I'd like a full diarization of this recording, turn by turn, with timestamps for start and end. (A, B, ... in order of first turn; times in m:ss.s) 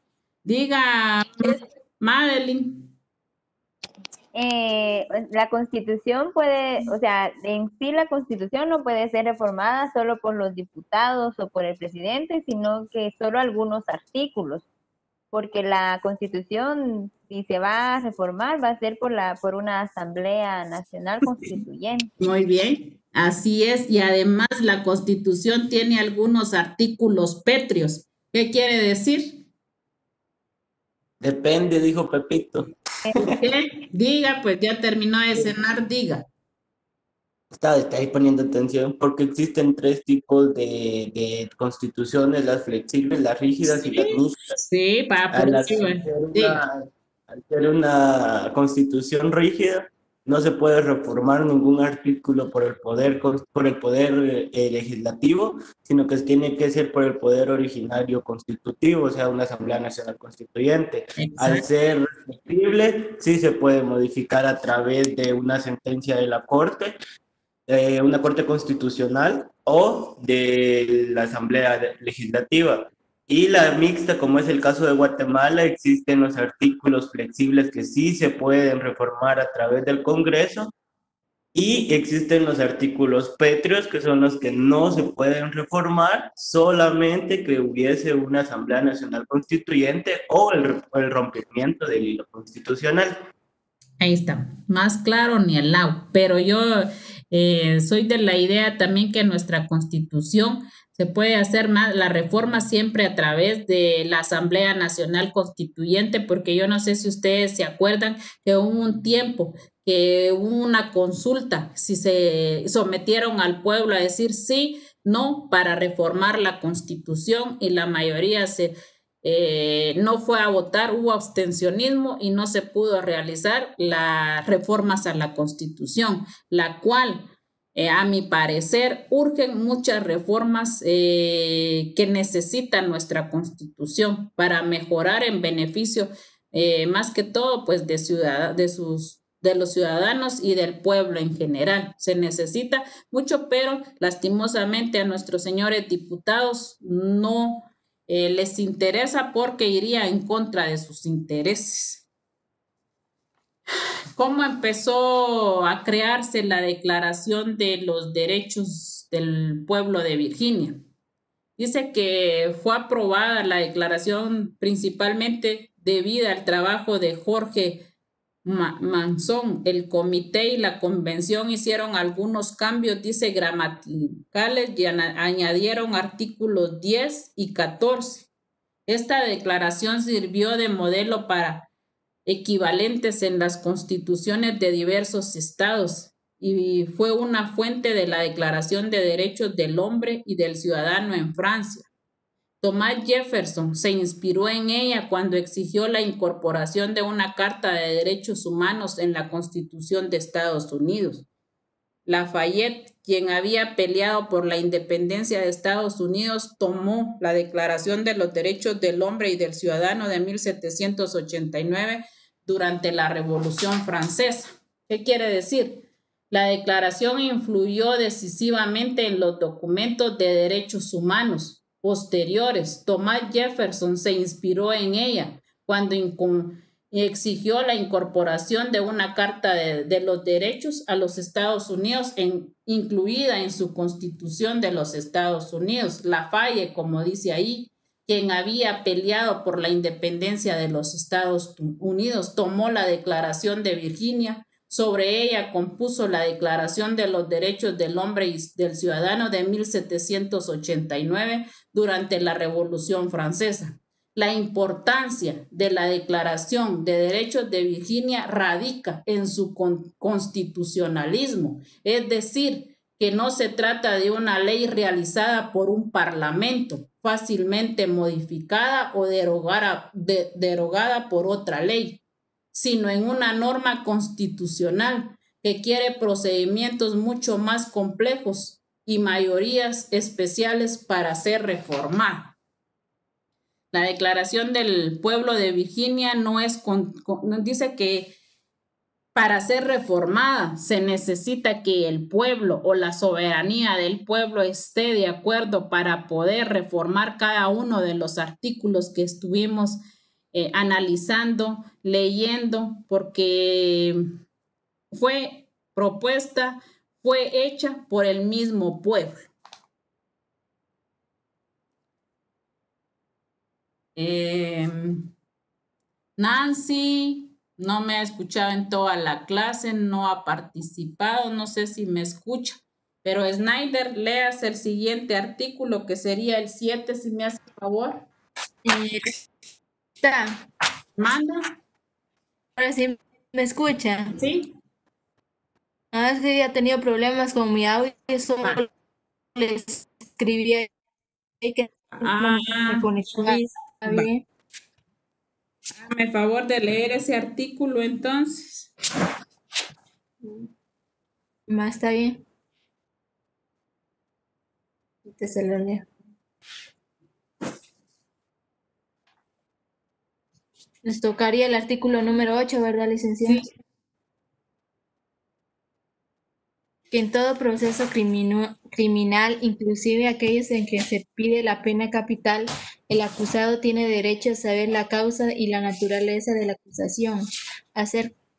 0:00.4-0:02.9 A
0:04.3-0:14.6 B
0:15.3-0:22.1 B
0:22.2-0:29.4 A
0:31.2-0:33.3 C
0:33.2-0:36.3 A
0:37.5-0:44.5 C
0:43.9-0:46.6 A
0:45.3-1:07.0 C
1:01.2-1:01.6 A
1:07.7-1:20.7 C
1:21.5-1:33.3 C
1:34.0-2:32.0 A
2:34.2-2:40.8 A
2:41.6-2:47.8 A
2:48.4-2:58.3 A
2:58.9-3:01.7 A
3:02.3-3:11.9 A
3:12.6-3:21.3 A
3:22.1-4:32.0 A
4:32.5-4:42.4 A
4:43.7-4:48.1 A
4:49.2-4:59.8 A
5:00.3-5:04.0 A
5:04.9-5:09.3 A
5:14.0-5:15.1 A
5:16.2-5:28.1 A
5:28.6-5:29.2 D
5:30.0-5:30.4 D
5:31.0-5:31.5 A
5:32.6-5:34.2 D
5:34.2-5:34.5 A
5:35.9-5:38.7 D
5:39.4-5:40.7 D
5:41.4-5:44.3 D
5:42.0-5:44.1 A
5:45.8-5:48.7 A
5:50.2-5:50.5 D
5:51.5-5:52.3 D
5:55.1-5:55.9 D
6:00.8-6:03.5 D
6:06.9-6:17.2 D
6:17.8-6:18.2 D